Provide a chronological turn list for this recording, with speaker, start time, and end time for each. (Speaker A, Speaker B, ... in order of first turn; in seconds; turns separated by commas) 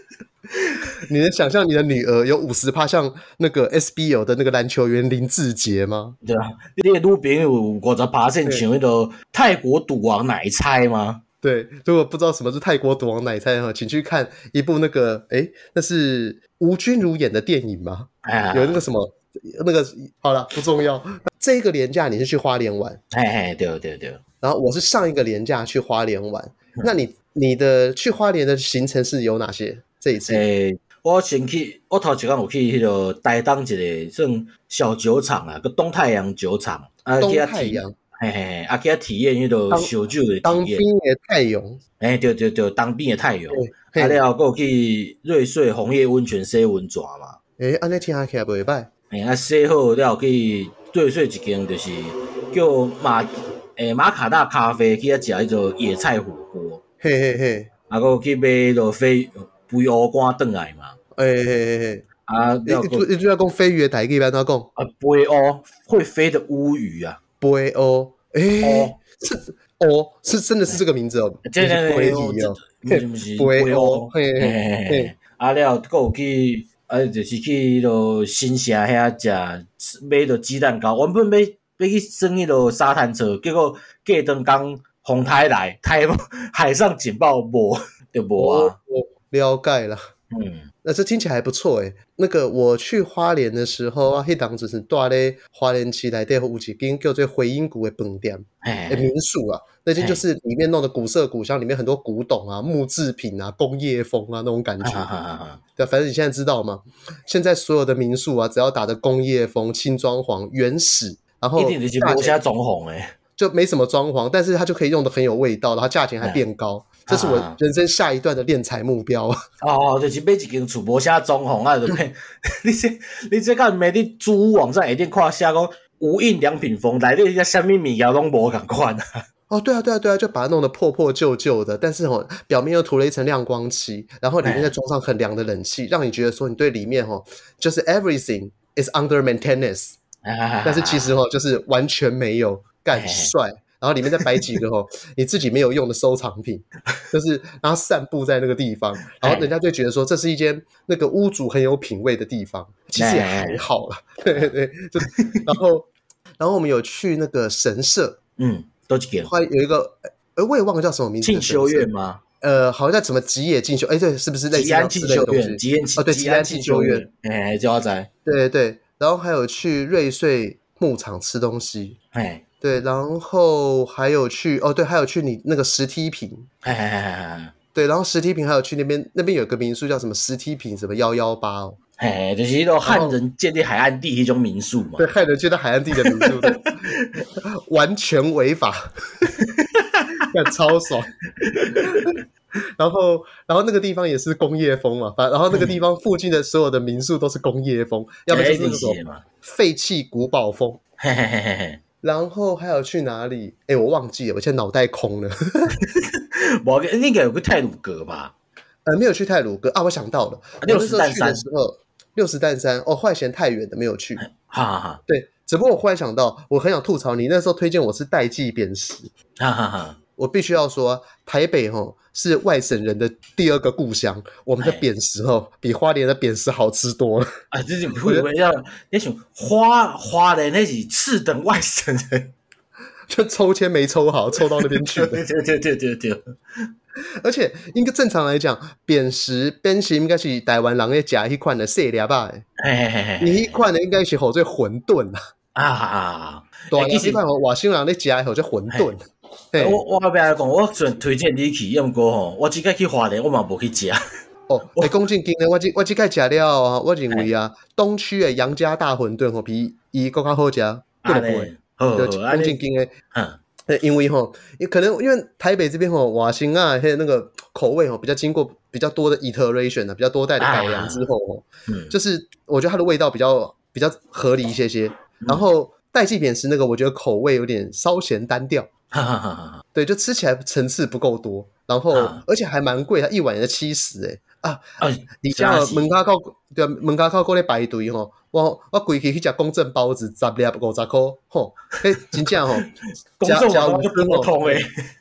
Speaker A: 1.0-6.2, Speaker B: 6.2-11.2, Speaker A: 11.4-23.0, Speaker B: 18.2-18.8, Speaker B: 23.1-24.2, Speaker A: 24.4-30.4, Speaker B: 30.3-40.8, Speaker A: 37.2-37.9, Speaker A: 40.4-41.8, Speaker B: 42.0-47.4, Speaker A: 43.5-44.2, Speaker A: 47.6-48.9, Speaker B: 49.1-56.8, Speaker A: 57.0-57.7, Speaker B: 57.9-61.0, Speaker A: 61.2-62.0, Speaker B: 62.3-63.1, Speaker A: 62.7-64.7, Speaker B: 64.8-67.2, Speaker A: 67.4-75.1, Speaker B: 68.6-69.0, Speaker B: 71.5-88.8, Speaker A: 88.4-90.0, Speaker B: 90.3-90.7, Speaker A: 90.8-105.1, Speaker B: 98.6-99.1, Speaker B: 100.0-100.2, Speaker B: 104.8-105.6, Speaker A: 105.8-112.4, Speaker B: 111.6-113.1, Speaker A: 113.4-119.4, Speaker B: 117.1-117.6, Speaker B: 119.6-129.0, Speaker A: 129.5-140.0, Speaker B: 134.4-134.7, Speaker B: 140.2-141.2, Speaker A: 140.7-158.2, Speaker B: 142.9-143.3, Speaker B: 144.2-144.5, Speaker B: 149.2-149.5, Speaker B: 153.0-153.7, Speaker B: 154.3-155.5, Speaker B: 158.4-159.3, Speaker A: 159.3-161.9, Speaker B: 161.2-162.2, Speaker A: 162.4-167.1, Speaker B: 164.5-168.1, Speaker A: 168.3-172.0, Speaker B: 172.1-172.4, Speaker A: 172.6-176.5, Speaker B: 176.6-177.5, Speaker A: 177.8-181.8, Speaker B: 182.0-185.1, Speaker A: 182.8-183.2, Speaker A: 185.0-189.3, Speaker B: 186.0-187.1, Speaker B: 189.4-190.2, Speaker A: 190.3-191.1, Speaker B: 191.4-192.2, Speaker A: 191.8-192.0, Speaker A: 192.8-200.8, Speaker B: 195.5-195.8, Speaker B: 198.3-199.2, Speaker B: 201.0-201.8, Speaker A: 202.0-205.8, Speaker B: 205.8-208.3, Speaker A: 208.8-214.2, Speaker B: 210.6-211.4, Speaker B: 214.2-215.0, Speaker A: 215.1-219.1, Speaker B: 219.4-220.0, Speaker A: 220.2-227.3, Speaker B: 224.6-224.8, Speaker B: 227.5-232.3, Speaker A: 233.1-235.2, Speaker B: 234.8-236.3, Speaker A: 237.2-242.4, Speaker B: 242.6-243.6, Speaker A: 243.2-245.2, Speaker B: 245.6-247.2, Speaker A: 246.7-249.0, Speaker A: 249.5-249.8, Speaker B: 249.6-254.0, Speaker A: 254.5-262.9, Speaker B: 261.0-262.6, Speaker B: 263.1-263.4, Speaker A: 263.7-278.7, Speaker B: 270.4-271.1, Speaker B: 271.7-271.9, Speaker B: 275.2-275.5, Speaker B: 278.9-279.6, Speaker A: 279.8-284.7, Speaker B: 281.9-282.2, Speaker B: 284.8-285.9, Speaker A: 285.2-292.7, Speaker B: 292.0-292.7, Speaker B: 293.2-294.7, Speaker A: 293.2-294.6